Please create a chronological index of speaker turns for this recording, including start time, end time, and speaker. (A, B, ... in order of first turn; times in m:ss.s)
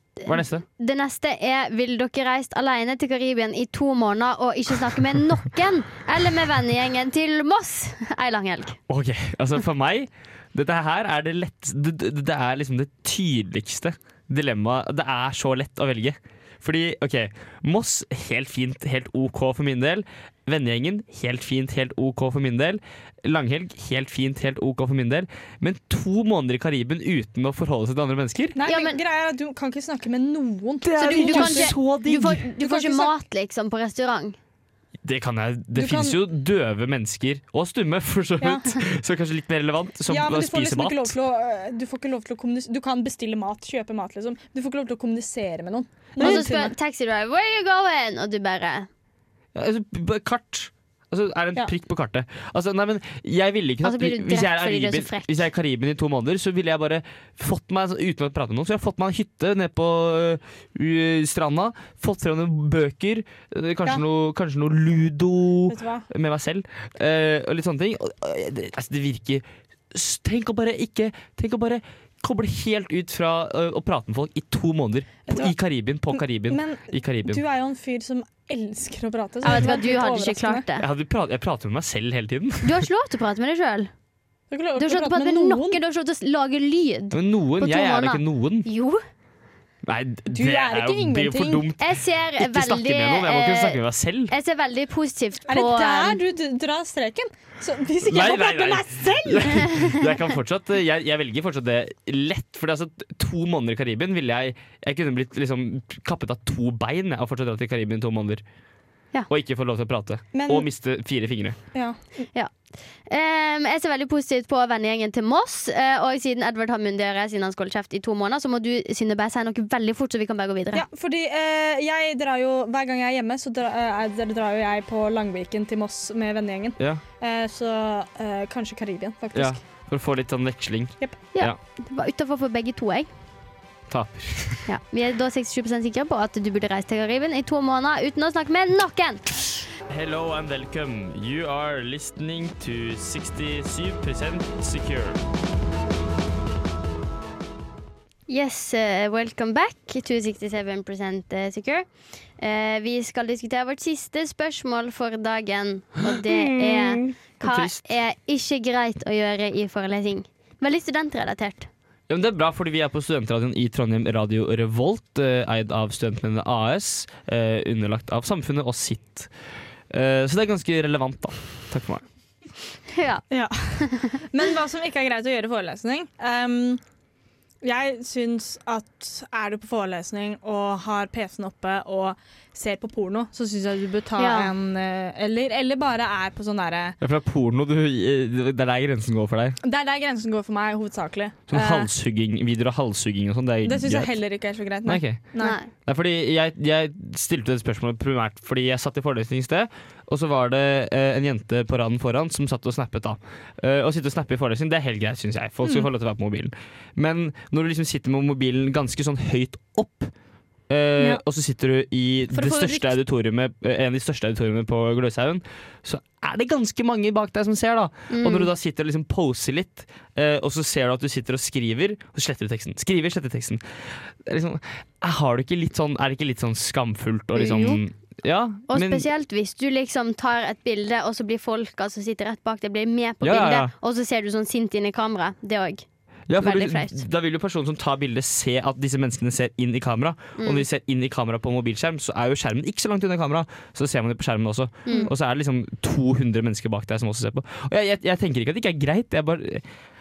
0:00.2-0:08.8 A
0:00.3-0:00.6 B
0:08.9-0:28.6 B
0:28.6-0:31.8 C
0:28.6-0:29.0 A
0:30.8-0:32.4 B
0:31.0-0:34.4 A
0:32.6-0:33.1 C
0:35.0-0:41.1 B
0:35.8-0:36.2 C
0:38.4-0:38.7 C
0:40.1-0:46.8 C
0:46.2-0:48.9 A
0:49.6-1:17.4 B
0:53.8-0:55.4 A
1:05.7-1:06.1 C
1:15.3-1:15.5 C
1:16.2-1:20.6 C
1:19.4-1:20.9 A
1:20.8-1:22.9 B
1:22.6-1:23.9 A
1:24.5-1:25.8 C
1:24.8-1:29.0 A
1:27.1-1:28.7 B
1:29.8-1:34.3 B
1:30.3-1:31.7 C
1:31.8-1:36.2 A
1:35.5-1:39.8 C
1:38.0-1:48.4 B
1:49.3-1:51.6 B
1:50.3-1:50.7 C
1:51.7-1:52.2 C
1:53.1-2:00.8 A
2:00.7-2:09.6 C
2:09.3-2:11.6 B
2:11.3-2:13.1 A
2:13.9-2:14.6 B
2:14.7-2:19.4 A
2:19.9-2:25.2 B
2:28.3-2:31.8 A
2:32.4-2:41.7 A
2:36.3-2:37.1 C
2:37.4-2:37.8 B
2:42.1-2:49.3 B
2:49.9-2:52.0 B
2:52.9-2:53.2 A
2:53.3-2:56.8 C
2:57.6-3:07.0 C
3:04.2-3:04.5 A
3:07.0-3:09.6 B
3:09.6-3:11.9 C
3:11.5-3:14.2 B
3:13.6-3:15.6 C
3:14.8-3:15.2 B
3:15.4-3:15.7 A
3:15.8-3:30.1 B
3:30.7-3:49.1 B
3:32.3-3:33.0 C
3:38.1-3:38.5 A
3:47.4-3:47.8 A
3:48.7-3:55.8 A
3:53.2-3:53.7 B
3:56.3-4:09.6 B
3:56.4-3:57.0 A
4:00.4-4:00.7 A
4:04.9-4:05.1 A